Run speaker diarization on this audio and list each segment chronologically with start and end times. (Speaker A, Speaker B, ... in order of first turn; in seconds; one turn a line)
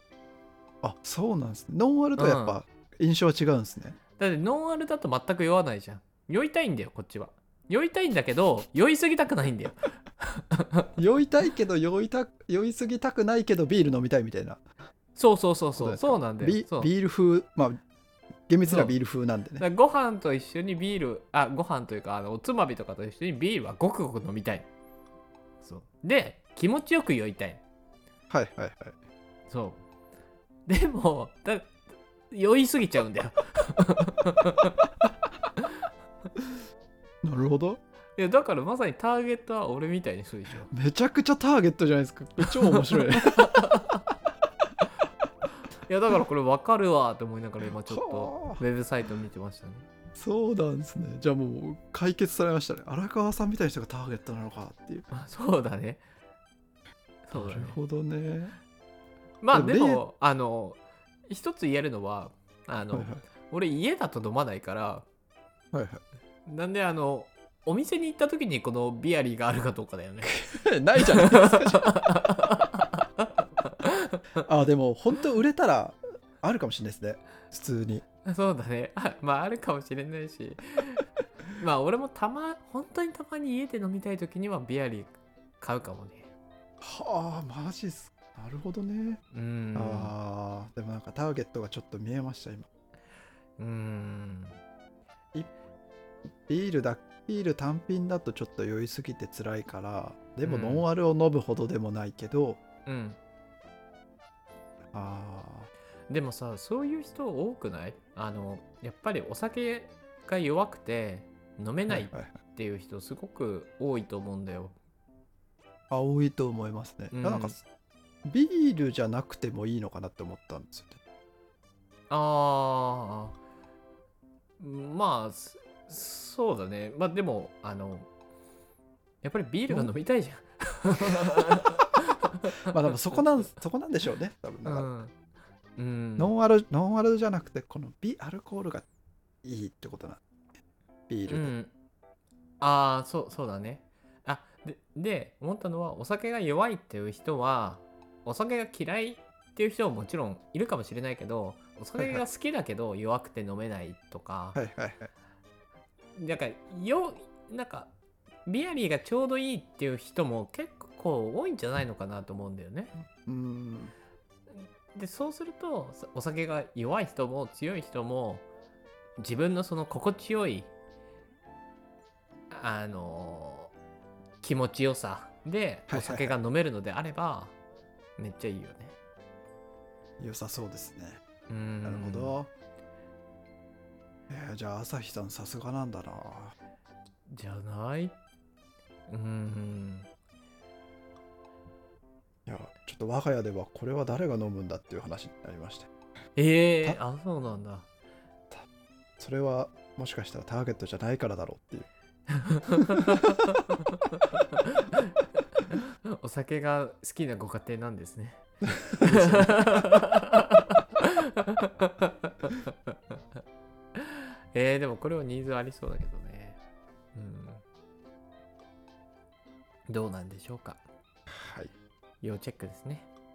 Speaker A: 0.8-4.0
Speaker B: 2.2-2.6
Speaker B: 4.2-10.9
Speaker A: 11.0-14.6
Speaker B: 15.2-16.9
Speaker A: 15.8-17.8
Speaker A: 18.5-19.6
Speaker B: 18.7-19.0
Speaker B: 19.6-24.7
Speaker B: 25.6-27.6
Speaker A: 28.3-28.9
Speaker B: 29.5-29.8
Speaker B: 30.7-31.8
Speaker B: 32.3-34.8
Speaker A: 37.2-37.8
Speaker B: 38.2-40.7
Speaker A: 40.7-43.7
Speaker B: 42.4-44.0
Speaker B: 45.9-49.9
Speaker A: 47.9-48.6
Speaker A: 50.1-55.1
Speaker B: 55.1-56.0
Speaker B: 57.3-57.8
Speaker A: 57.3-58.5
Speaker B: 59.4-65.1
Speaker A: 59.5-60.0
Speaker A: 62.9-63.2
Speaker A: 65.7-66.0
Speaker B: 66.5-70.3
Speaker A: 70.2-72.1
Speaker B: 71.2-73.0
Speaker B: 73.6-74.2
Speaker A: 74.4-78.0
Speaker B: 78.2-86.3
Speaker A: 86.8-89.2
Speaker B: 89.3-90.1
Speaker A: 89.8-92.7
Speaker B: 93.6-94.6
Speaker A: 96.5-102.6
Speaker B: 100.4-100.9
Speaker B: 102.9-103.2
Speaker A: 104.9-105.7
Speaker B: 106.1-114.8
Speaker A: 111.9-112.3
Speaker A: 115.9-117.6
Speaker B: 117.1-117.5
Speaker A: 118.2-121.0
Speaker B: 122.1-123.4
Speaker B: 124.6-128.1
Speaker B: 129.2-133.5
Speaker A: 132.7-134.9
Speaker B: 134.7-135.1
Speaker B: 135.8-136.3
Speaker A: 136.2-138.8
Speaker A: 139.4-140.2
Speaker A: 141.1-141.5
Speaker B: 141.3-141.7
Speaker B: 142.6-154.6
Speaker A: 152.0-152.2
Speaker A: 154.6-155.1
Speaker B: 156.2-157.9
Speaker B: 158.5-162.9
Speaker A: 163.2-163.9
Speaker B: 164.6-168.4
Speaker B: 169.2-170.7
Speaker B: 172.5-173.7
Speaker B: 174.4-177.5
Speaker A: 175.9-176.4
Speaker B: 178.2-179.0
Speaker A: 180.2-181.2
Speaker B: 181.5-182.4
Speaker A: 181.8-182.5
Speaker A: 184.3-186.5
Speaker B: 187.3-188.2
Speaker B: 189.1-190.1
Speaker A: 192.5-195.9
Speaker B: 196.4-197.9
Speaker A: 199.2-201.9
Speaker B: 202.4-203.6
Speaker A: 202.8-203.2
Speaker B: 204.3-205.0
Speaker B: 205.6-208.4
Speaker A: 208.9-209.7
Speaker B: 208.9-213.0
Speaker B: 214.0-216.6
Speaker B: 217.2-217.6
Speaker B: 219.9-220.8
Speaker A: 221.3-221.7
Speaker B: 222.2-223.1